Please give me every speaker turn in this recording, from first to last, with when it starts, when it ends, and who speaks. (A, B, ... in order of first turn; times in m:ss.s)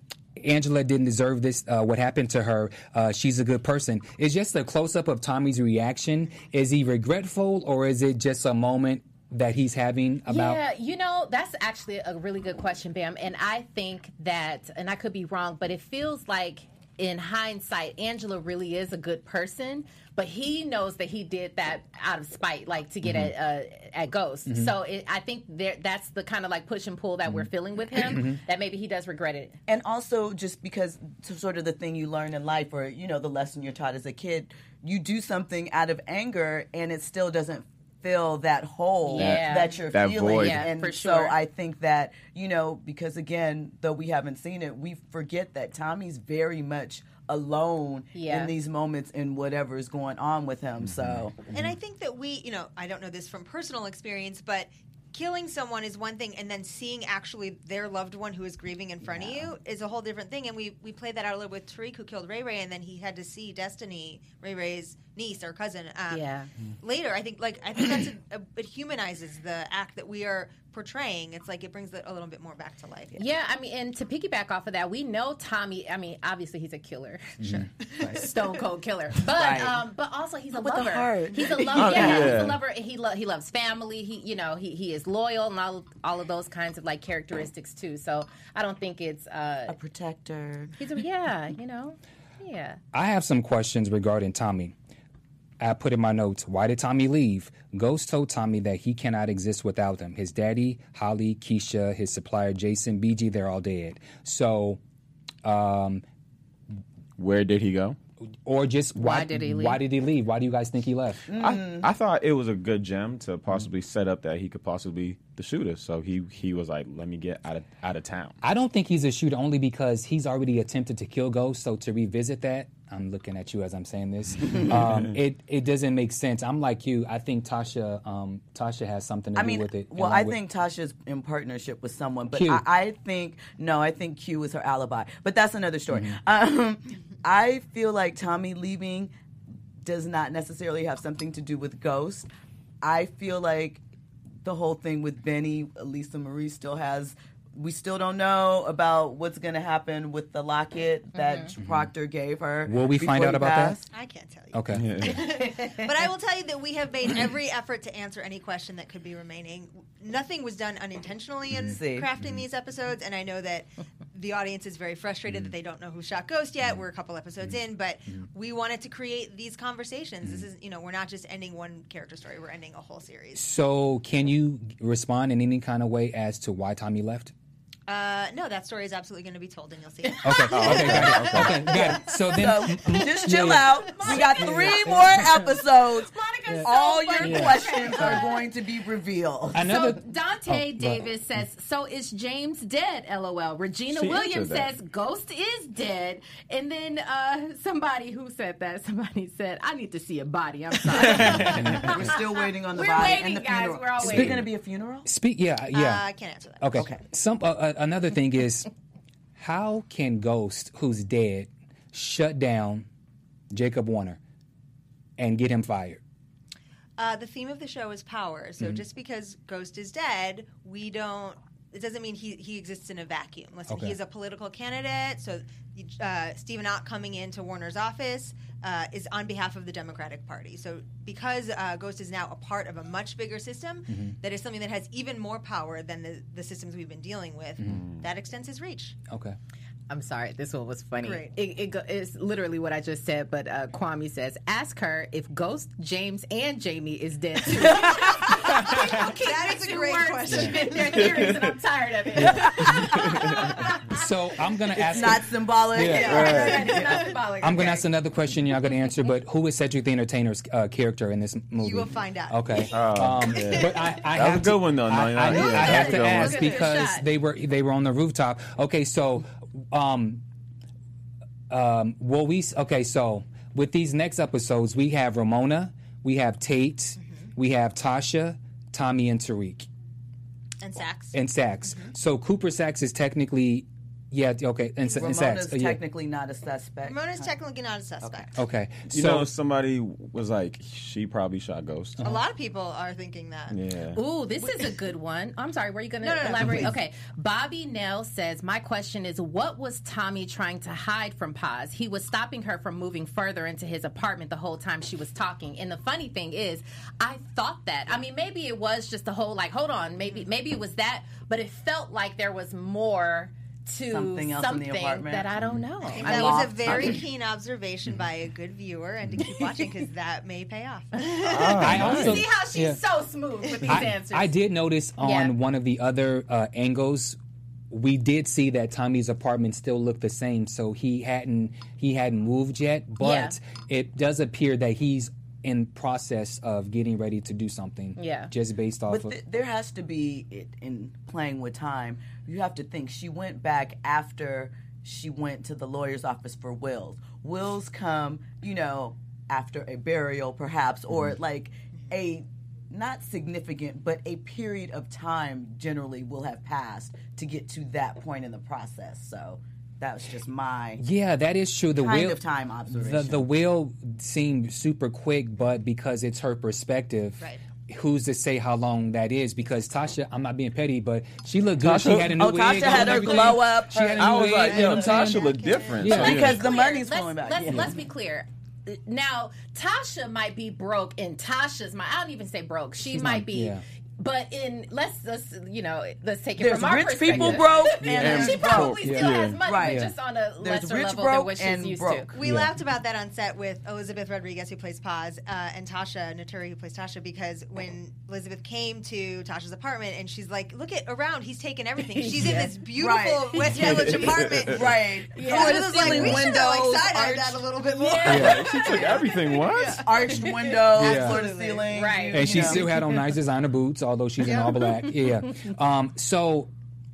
0:00.4-0:10.6 A
0:10.3-0:29.6 B
0:23.0-0:23.3 A
0:24.5-0:24.7 A
0:27.2-0:28.4 A
0:29.7-0:51.4 C
0:39.0-0:39.8 B
0:39.1-0:40.7 D
0:40.4-0:41.4 B
0:48.1-0:48.5 B
0:50.9-0:51.2 D
0:51.5-1:13.2 E
0:59.0-0:59.5 C
1:06.1-1:06.5 B
1:13.2-1:17.4 B
1:17.4-1:17.7 A
1:17.4-1:18.1 E
1:18.0-1:29.7 B
1:18.0-1:18.2 C
1:19.2-1:19.8 C
1:20.6-1:22.4 C
1:21.7-1:22.6 D
1:29.7-1:30.7 C
1:30.8-1:32.8 B
1:32.9-1:34.7 A
1:35.6-1:44.8 A
1:45.4-1:46.0 A
1:47.2-1:48.0 D
1:48.4-1:51.3 A
1:49.0-1:49.8 B
1:51.3-1:51.9 C
1:51.4-1:58.4 D
1:58.4-2:10.4 A
2:04.6-2:05.1 D
2:09.3-2:19.1 C
2:12.3-2:12.6 A
2:15.9-2:16.2 A
2:19.8-2:22.3 C
2:22.8-2:23.8 C
2:24.4-2:33.9 C
2:31.1-2:31.5 B
2:31.6-2:31.9 A
2:32.6-2:33.8 A
2:33.9-2:53.4 E
2:34.5-2:34.9 A
2:34.7-2:35.3 D
2:41.5-2:41.8 A
2:41.6-2:42.1 C
2:53.4-2:57.3 A
2:57.9-3:01.2 E
3:00.2-3:05.2 A
3:00.5-3:01.7 D
3:01.7-3:09.7 C
3:03.2-3:08.5 B
3:06.5-3:08.2 A
3:09.5-3:11.0 A
3:09.6-3:22.2 B
3:13.9-3:14.7 D
3:21.0-3:21.9 D
3:21.5-3:25.0 C
3:21.5-3:21.9 A
3:22.7-3:24.3 B
3:24.0-3:24.4 A
3:24.1-3:24.4 D
3:25.0-3:26.0 A
3:25.7-3:26.8 E
3:26.6-3:28.7 A
3:26.8-3:27.0 C
3:29.4-3:32.9 A
3:33.5-3:34.2 A
3:35.2-3:36.0 A
3:37.0-3:59.0 E
3:43.7-3:44.0 A
3:53.9-3:54.2 A
3:57.6-3:58.0 D
3:59.1-3:59.4 A
3:59.9-4:13.8 B
4:01.0-4:01.3 E
4:07.5-4:08.2 C
4:08.6-4:08.9 A
4:08.8-4:11.4 E
4:10.3-4:10.6 A
4:12.2-4:12.9 A
4:12.8-4:13.5 D
4:13.9-4:16.8 A
4:14.9-4:17.0 C
4:15.8-4:17.1 E
4:15.9-4:17.8 B
4:17.4-4:30.2 A
4:21.6-4:24.0 E
4:22.7-4:26.5 D
4:25.3-4:27.0 B
4:31.5-4:39.7 A
4:37.0-4:37.3 E
4:40.6-4:41.9 E
4:41.1-4:45.8 A
4:45.0-4:47.3 C
4:46.8-4:48.3 E
4:48.0-4:48.3 C
4:48.4-4:49.3 A
4:48.9-4:52.0 D
4:52.0-4:53.6 E
4:53.5-4:54.0 D
4:53.9-5:16.5 B
4:56.0-4:56.7 E
4:56.4-4:56.7 A
5:13.9-5:15.3 C
5:15.4-5:15.6 D
5:15.8-5:17.0 C
5:15.9-5:21.8 E
5:19.2-5:19.6 B
5:21.2-5:22.2 D
5:21.6-5:22.8 A
5:21.7-5:24.3 B
5:23.7-5:27.2 A
5:25.0-5:25.3 B
5:27.7-5:39.2 A
5:33.0-5:33.3 B
5:38.0-5:38.3 B
5:38.9-6:00.8 C
6:00.8-6:16.2 A
6:01.8-6:03.2 C
6:11.6-6:13.0 D
6:12.2-6:14.9 C
6:13.9-6:16.4 D
6:14.4-6:16.1 E
6:15.8-6:17.8 C
6:16.0-6:32.1 B
6:17.5-6:17.8 A
6:22.8-6:23.6 A
6:26.4-6:28.8 C
6:27.1-6:27.4 A
6:27.8-6:29.4 D
6:28.8-6:29.9 A
6:29.4-6:32.2 C
6:32.1-6:51.7 E
6:32.2-6:32.5 A
6:41.8-6:42.6 B
6:42.8-6:47.4 C
6:43.5-6:44.5 D
6:43.6-6:44.1 B
6:45.1-6:46.4 B
6:47.8-6:49.4 B
6:48.0-6:49.8 D
6:48.1-6:48.4 A
6:49.8-6:52.7 C
6:50.7-6:51.2 A
6:51.7-6:53.0 B
6:52.1-6:56.5 A
6:54.2-6:54.5 E